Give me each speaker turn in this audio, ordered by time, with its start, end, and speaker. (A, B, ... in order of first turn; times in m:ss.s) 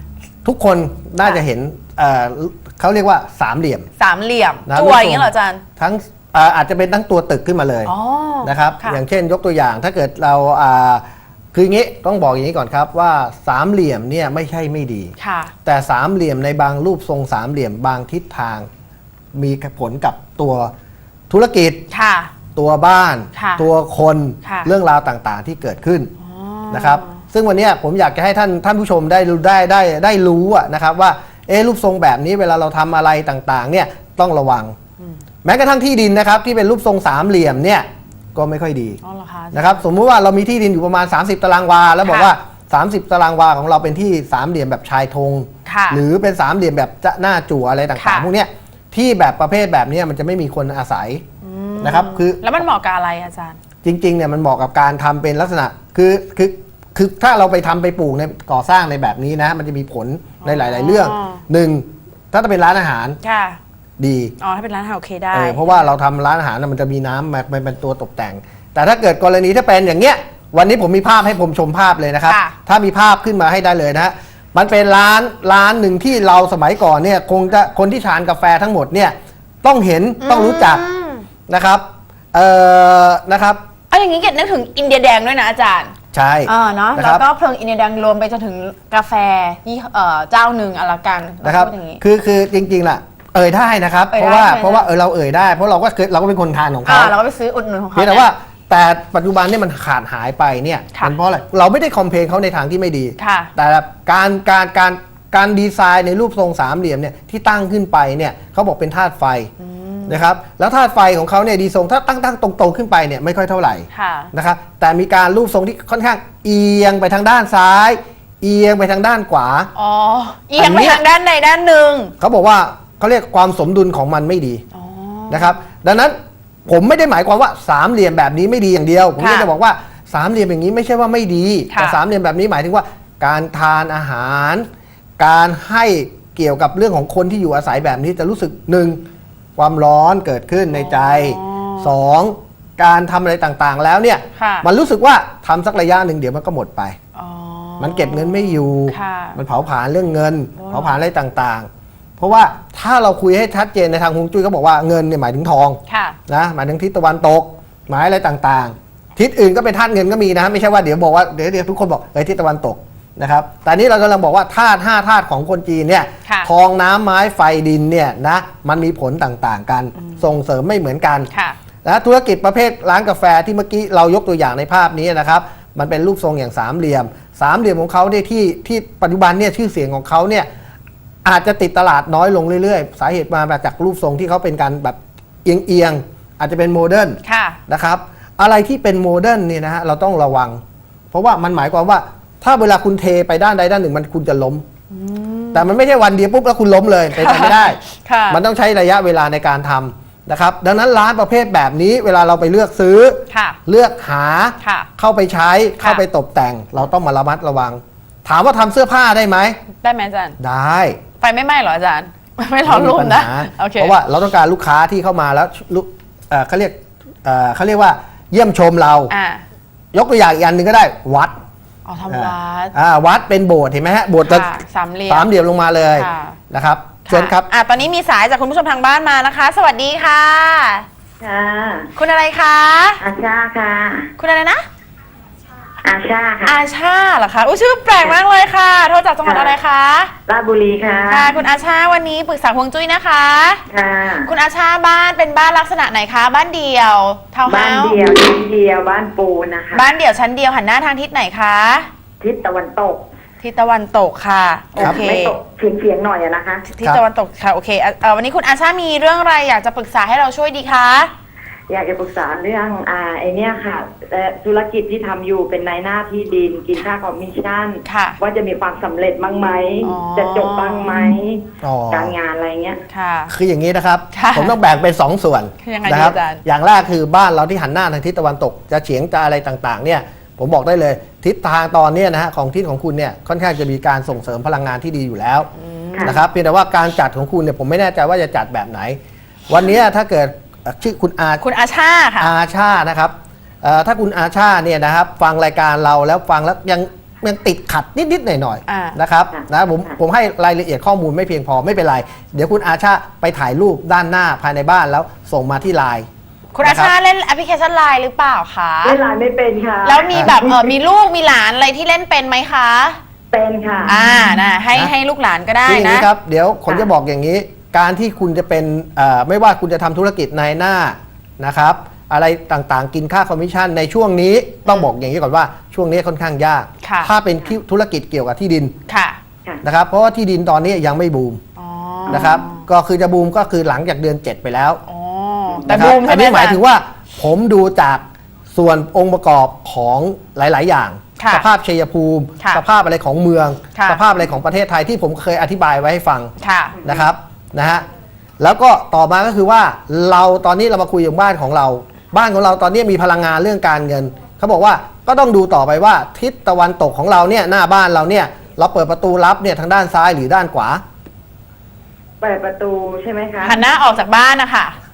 0:00.4-0:03.9 A
0:04.0-0:05.6 B
0:04.7-0:07.9 A
0:07.8-0:09.0 B
0:08.4-0:15.1 A
0:15.2-0:15.5 B
0:15.6-0:18.7 A
0:19.4-0:20.7 A
0:21.3-0:21.8 A
0:21.9-0:22.3 B
0:22.6-0:26.1 A
0:23.4-0:23.7 B
0:24.4-0:24.7 B
0:26.2-0:27.2 B
0:26.7-0:34.8 A
0:35.4-0:39.0 A
0:39.0-0:39.8 B
0:39.5-0:51.2 A
0:42.0-0:42.3 B
0:45.7-0:46.0 B
0:48.0-0:48.3 B
0:51.4-0:53.6 B
0:51.8-0:52.5 A
0:53.8-1:03.2 A
1:00.4-1:01.4 B
1:03.2-1:03.6 B
1:04.0-1:04.4 A
1:04.4-1:05.8 B
1:05.3-1:20.8 A
1:12.3-1:12.6 B
1:20.2-1:21.3 B
1:21.5-1:23.6 A
1:23.9-1:25.9 B
1:26.1-1:27.2 A
1:26.5-1:32.0 B
1:31.4-1:37.1 A
1:34.1-1:34.9 B
1:36.8-1:38.3 B
1:38.0-1:49.5 A
1:43.2-1:43.5 B
1:49.6-1:50.2 B
1:50.1-1:59.7 A
1:53.9-1:54.3 B
1:59.8-2:02.1 B
2:00.6-2:01.0 A
2:02.2-2:04.6 A
2:04.7-2:05.6 B
2:05.3-2:06.2 A
2:06.7-2:14.7 A
2:09.2-2:09.5 B
2:11.7-2:12.0 B
2:15.2-2:19.0 A
2:19.6-2:27.0 A
2:20.7-2:21.9 B
2:24.4-2:24.7 B
2:27.2-2:29.4 B
2:27.8-2:51.3 A
2:30.6-2:31.0 B
2:35.9-2:36.2 B
2:46.2-2:46.5 B
2:50.0-2:50.3 B
2:51.3-2:51.6 B
2:51.8-3:00.5 A
3:01.2-3:10.6 A
3:07.2-3:07.6 B
3:11.1-3:14.6 A
3:14.9-3:15.7 B
3:15.5-3:29.6 A
3:17.1-3:18.4 B
3:23.3-3:23.6 B
3:24.6-3:24.9 B
3:29.8-3:30.4 B
3:30.4-3:31.0 A
3:31.2-3:34.0 B
3:32.7-3:39.1 A
3:39.1-3:39.4 B
3:39.9-3:41.4 A
3:41.9-3:42.7 B
3:42.1-3:44.5 A
3:44.2-3:45.3 B
3:45.1-3:47.5 A
3:45.9-3:46.4 B
3:47.1-3:50.9 B
3:51.2-3:51.9 C
3:52.0-3:53.0 B
3:53.0-3:54.1 C
3:54.2-3:54.7 B
3:55.8-3:56.6 C
3:56.4-4:00.1 B
3:59.2-3:59.6 C
4:00.3-4:01.3 C
4:01.1-4:03.6 B
4:03.7-4:04.3 C
4:04.2-4:08.0 B
4:07.5-4:09.8 C
4:09.7-4:11.9 B
4:12.2-4:13.0 C
4:13.4-4:15.4 B
4:14.8-4:16.7 C
4:14.8-4:15.0 A
4:16.7-4:21.1 B
4:21.7-4:32.8 C
4:27.8-4:28.2 B
4:29.8-4:31.1 B
4:31.6-4:32.1 A
4:32.9-4:33.3 B
4:33.3-4:45.5 A
4:34.1-4:34.6 B
4:35.6-4:36.4 B
4:45.6-4:46.2 B
4:46.0-4:49.0 A
4:49.5-4:51.4 A
4:51.4-4:52.3 B
4:52.2-5:06.1 A
4:58.7-4:59.0 B
5:06.6-5:09.0 B
5:06.6-5:06.9 A
5:08.8-5:10.7 C
5:09.8-5:13.0 B
5:13.3-5:14.0 C
5:13.9-5:16.1 B
5:15.7-5:28.7 A
5:24.6-5:24.9 B
5:26.8-5:27.1 B
5:28.9-5:29.2 B
5:29.6-5:31.4 A
5:31.6-5:32.7 B
5:32.1-5:34.8 A
5:34.9-5:36.6 B
5:35.6-5:35.9 C
5:35.7-5:46.3 A
5:41.2-5:41.5 B
5:43.8-5:44.0 B
5:46.4-5:46.9 B
5:46.8-5:47.8 A
5:48.4-6:00.8 A
6:02.2-6:03.6 C
6:03.4-6:04.8 B